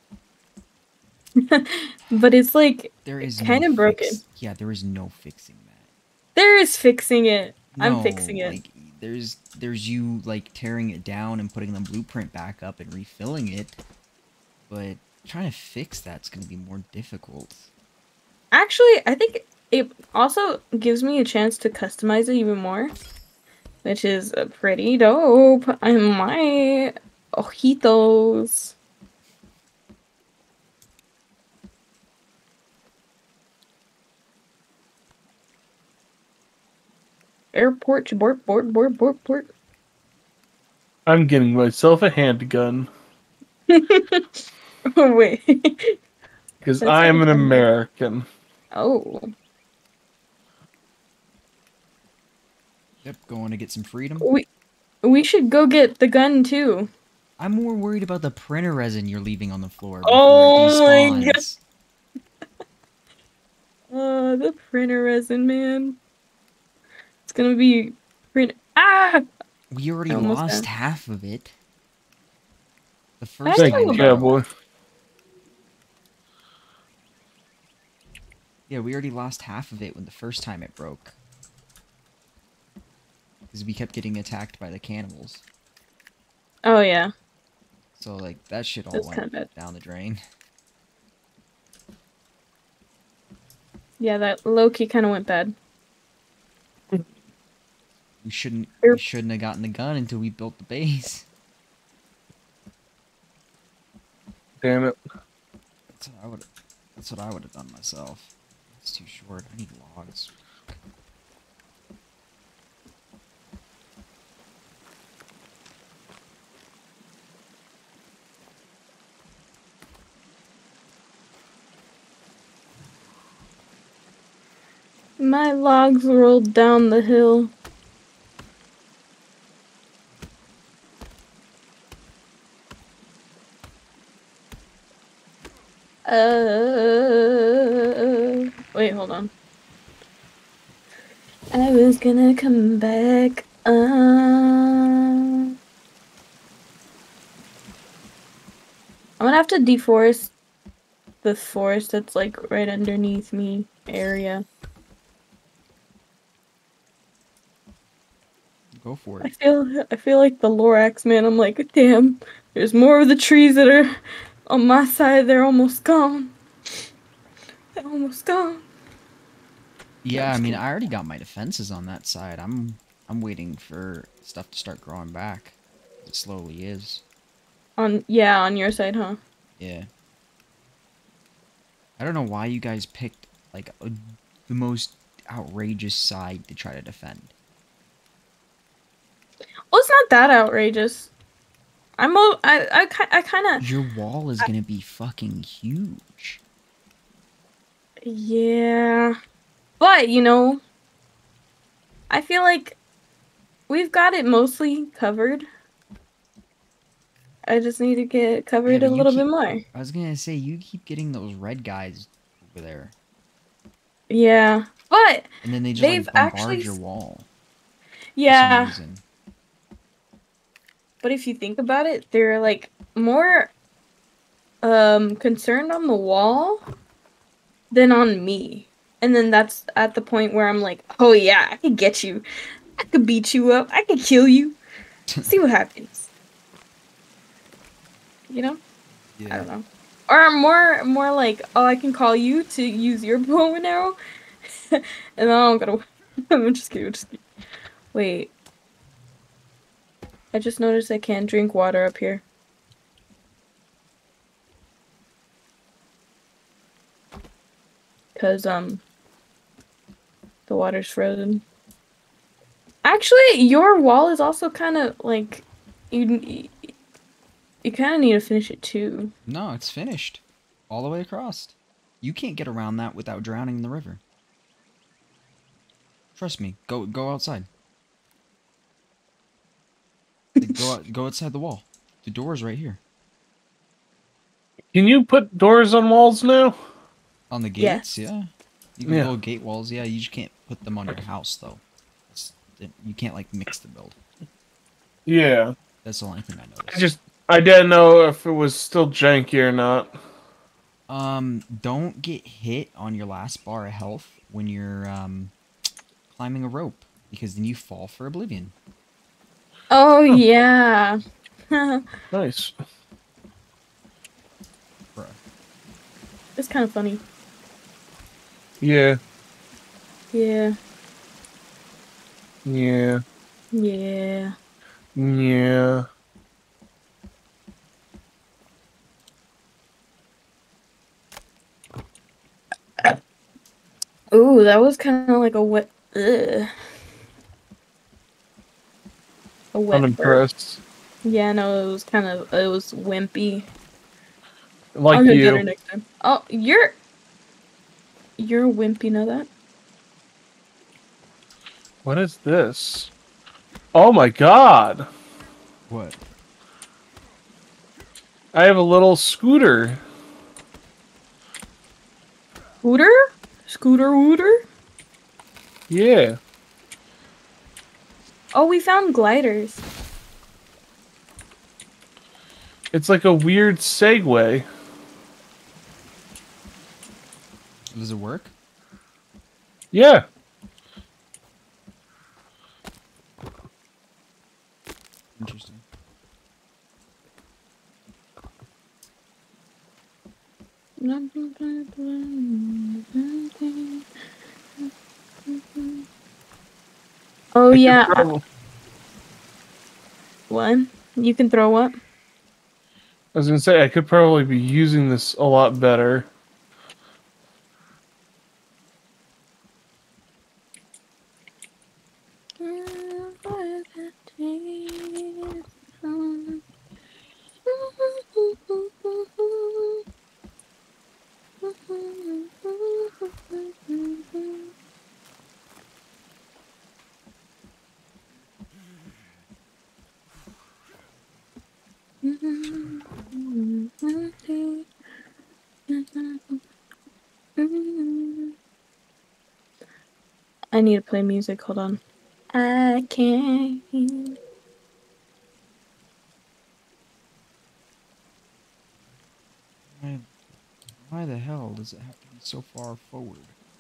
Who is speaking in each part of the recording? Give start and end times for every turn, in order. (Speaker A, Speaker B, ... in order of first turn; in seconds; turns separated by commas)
Speaker A: 1.4-4.2, Speaker B: 3.0-5.8, Speaker A: 6.4-8.6, Speaker B: 7.7-13.8, Speaker B: 14.7-17.7, Speaker A: 18.5-22.9, Speaker A: 23.9-28.8, Speaker A: 37.5-39.5, Speaker C: 41.1-42.9, Speaker A: 43.7-46.0, Speaker C: 46.6-48.3, Speaker A: 46.8-47.7, Speaker A: 48.7-49.3, Speaker B: 53.0-54.3, Speaker A: 54.2-54.5, Speaker A: 55.0-56.9, Speaker B: 57.4-61.6, Speaker A: 60.0-61.4, Speaker A: 63.9-66.0, Speaker A: 67.3-69.2, Speaker B: 69.7-71.6, Speaker A: 70.1-70.6, Speaker B: 73.2-74.4, Speaker A: 73.5-74.1, Speaker C: 73.6-74.5, Speaker B: 78.7-81.2, Speaker B: 83.5-85.4, Speaker A: 86.6-87.1, Speaker B: 88.0-90.2, Speaker A: 88.9-89.5, Speaker A: 94.0-95.5, Speaker B: 98.2-101.3, Speaker C: 104.6-105.0, Speaker B: 105.9-110.8, Speaker A: 125.2-127.5, Speaker A: 136.1-139.3, Speaker A: 141.5-145.5, Speaker A: 149.2-150.3, Speaker A: 151.2-154.4, Speaker B: 158.8-159.3, Speaker A: 159.2-163.9, Speaker A: 164.5-166.3, Speaker A: 167.8-168.7, Speaker B: 170.0-177.0, Speaker A: 170.1-170.6, Speaker A: 177.8-179.2, Speaker B: 179.6-179.9, Speaker B: 182.0-187.3, Speaker A: 189.7-191.1, Speaker A: 192.0-193.7, Speaker B: 193.6-196.4, Speaker A: 198.1-199.2, Speaker A: 199.8-200.6, Speaker A: 202.1-202.8, Speaker A: 203.7-205.5, Speaker A: 207.5-209.6, Speaker B: 208.7-212.9, Speaker A: 214.1-216.7, Speaker B: 215.4-217.3, Speaker A: 218.2-218.7, Speaker B: 218.3-219.0, Speaker A: 221.0-223.5, Speaker A: 224.6-226.7, Speaker A: 227.7-232.2, Speaker A: 232.8-234.6, Speaker A: 235.2-236.1, Speaker A: 238.3-238.6, Speaker B: 239.2-239.5, Speaker A: 239.3-244.0, Speaker A: 244.6-247.2, Speaker A: 247.9-248.3, Speaker A: 250.3-252.2, Speaker A: 258.2-258.8, Speaker A: 260.5-261.4, Speaker A: 262.8-266.7, Speaker A: 267.6-269.1, Speaker B: 269.3-274.0, Speaker B: 276.2-277.5, Speaker B: 280.4-282.8, Speaker C: 284.7-286.6, Speaker B: 287.3-294.0, Speaker C: 288.9-289.1, Speaker C: 295.1-295.5, Speaker B: 295.8-296.9, Speaker C: 296.7-299.9, Speaker B: 300.9-305.3, Speaker B: 306.1-308.6, Speaker A: 309.7-311.9, Speaker C: 312.1-312.5, Speaker B: 314.9-315.2, Speaker A: 316.4-317.0, Speaker C: 318.6-319.0, Speaker A: 320.1-320.6, Speaker C: 322.5-323.0, Speaker A: 323.5-324.3, Speaker C: 325.0-325.9, Speaker A: 334.1-336.5, Speaker A: 339.5-340.2, Speaker C: 339.7-340.6, Speaker A: 341.0-343.5, Speaker C: 344.8-345.4, Speaker A: 344.9-346.8, Speaker A: 348.2-349.3, Speaker C: 351.8-352.9, Speaker C: 353.7-354.9, Speaker B: 355.7-356.0, Speaker C: 358.3-359.8, Speaker A: 362.6-364.4, Speaker C: 365.7-366.2, Speaker A: 368.3-369.6, Speaker C: 372.7-374.5, Speaker B: 377.7-378.3, Speaker C: 379.7-380.1, Speaker B: 385.2-385.6, Speaker A: 390.8-393.9, Speaker A: 395.3-395.9, Speaker A: 397.4-398.1, Speaker C: 397.5-398.2, Speaker A: 400.3-401.8, Speaker C: 403.1-406.1, Speaker A: 412.4-416.4, Speaker A: 417.5-419.8, Speaker A: 421.4-424.5, Speaker A: 432.0-434.7, Speaker A: 435.7-436.4, Speaker A: 437.4-438.3, Speaker A: 440.5-441.8, Speaker A: 442.3-444.2, Speaker B: 449.7-450.1, Speaker B: 450.8-453.4